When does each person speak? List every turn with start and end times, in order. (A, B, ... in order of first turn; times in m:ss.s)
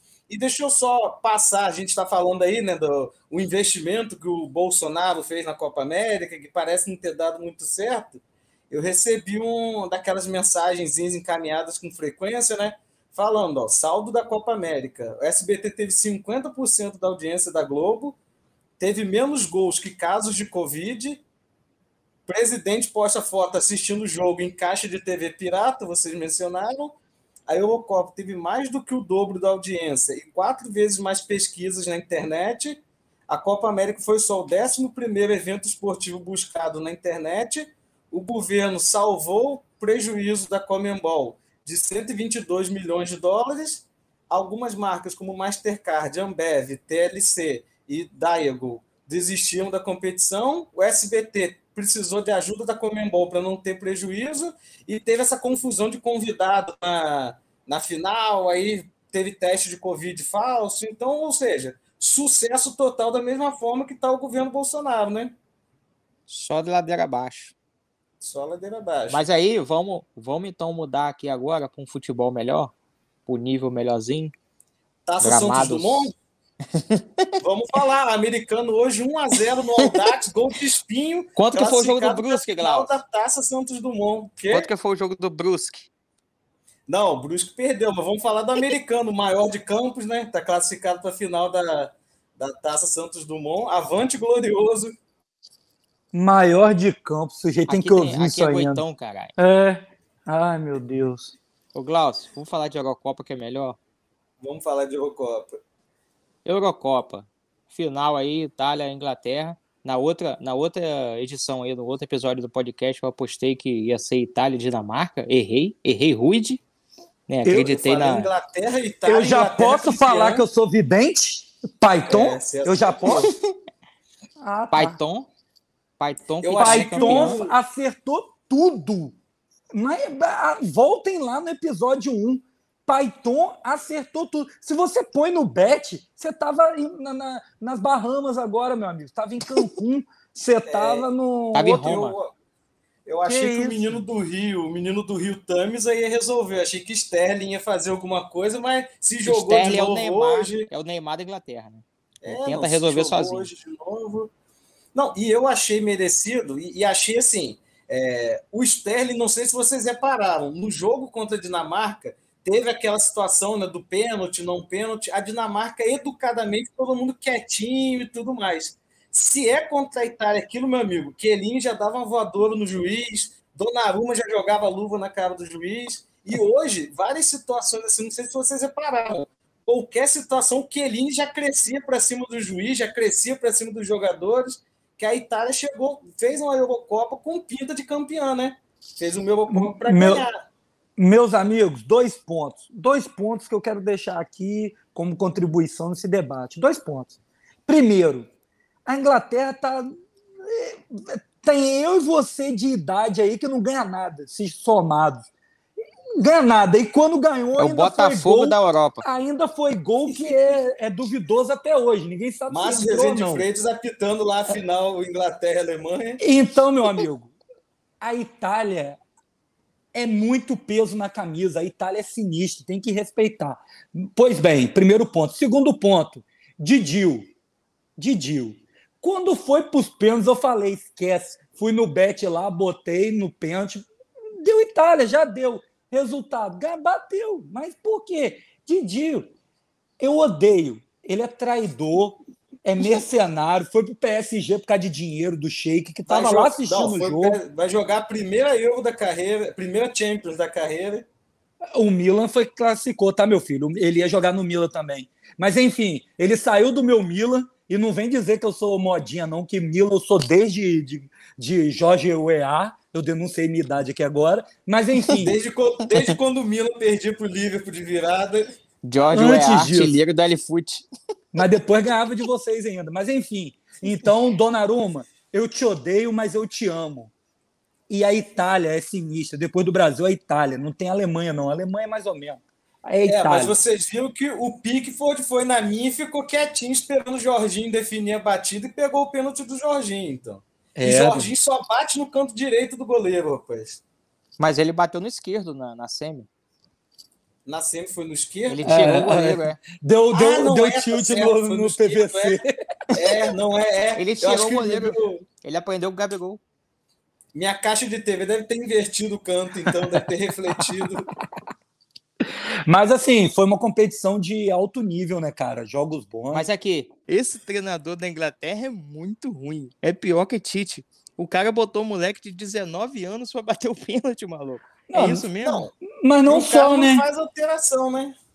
0:00.3-0:18.2 A
0:18.8-0:21.2 A
0:22.3-0:27.0 A
0:27.5-1:05.3 A
1:06.3-1:07.5 B
1:08.2-1:09.2 A
1:09.1-1:12.7 B
1:13.2-1:14.3 B
1:15.0-1:16.1 A
1:15.2-1:16.1 B
1:16.7-1:17.2 B
1:17.4-1:24.7 A
1:21.4-1:22.9 B
1:24.5-1:25.9 B
1:26.9-1:34.9 A
1:36.1-1:38.8 C
1:37.7-1:39.3 B
1:39.4-1:41.4 C
1:41.7-1:43.8 B
1:44.4-1:45.6 A
1:46.4-1:56.6 B
1:57.3-1:58.3 B
1:57.5-2:00.4 A
1:59.0-2:03.3 C
2:02.1-2:03.3 A
2:04.4-2:05.0 C
2:04.7-2:05.3 B
2:06.0-2:07.4 B
2:06.4-2:07.5 A
2:06.6-2:09.2 C
2:09.7-2:21.9 C
2:20.7-2:21.1 A
2:21.5-2:22.2 B
2:21.6-2:22.3 A
2:23.0-2:30.7 A
2:23.2-2:24.0 C
2:29.2-2:33.5 B
2:32.2-2:34.3 A
2:34.9-3:10.4 A
3:09.5-3:10.3 C
3:11.0-3:18.3 C
3:18.8-3:25.3 C
3:26.2-3:33.4 C
3:27.6-3:29.0 B
3:32.5-3:36.2 A
3:36.2-3:37.3 C
3:38.0-3:39.0 C
3:39.9-3:47.3 C
3:48.0-3:53.8 C
3:54.4-3:59.3 C
4:00.0-4:07.4 C
4:06.1-4:11.0 A
4:11.7-4:25.4 C
4:25.2-4:28.5 A
4:28.8-4:30.8 B
4:29.1-4:30.0 C
4:31.3-4:37.1 C
4:37.9-4:43.6 C
4:43.0-4:53.8 A
4:50.8-4:51.3 C
4:54.4-4:56.3 B
4:57.4-4:58.6 A
4:58.5-4:59.6 B
4:58.6-5:03.2 C
5:00.1-5:02.4 A
5:02.9-5:05.2 A
5:04.0-5:06.4 B
5:07.3-5:11.1 A
5:12.3-5:16.5 C
5:16.3-5:25.7 B
5:24.9-5:25.3 C
5:25.4-5:25.7 A
5:25.8-5:27.0 C
5:26.3-5:28.2 A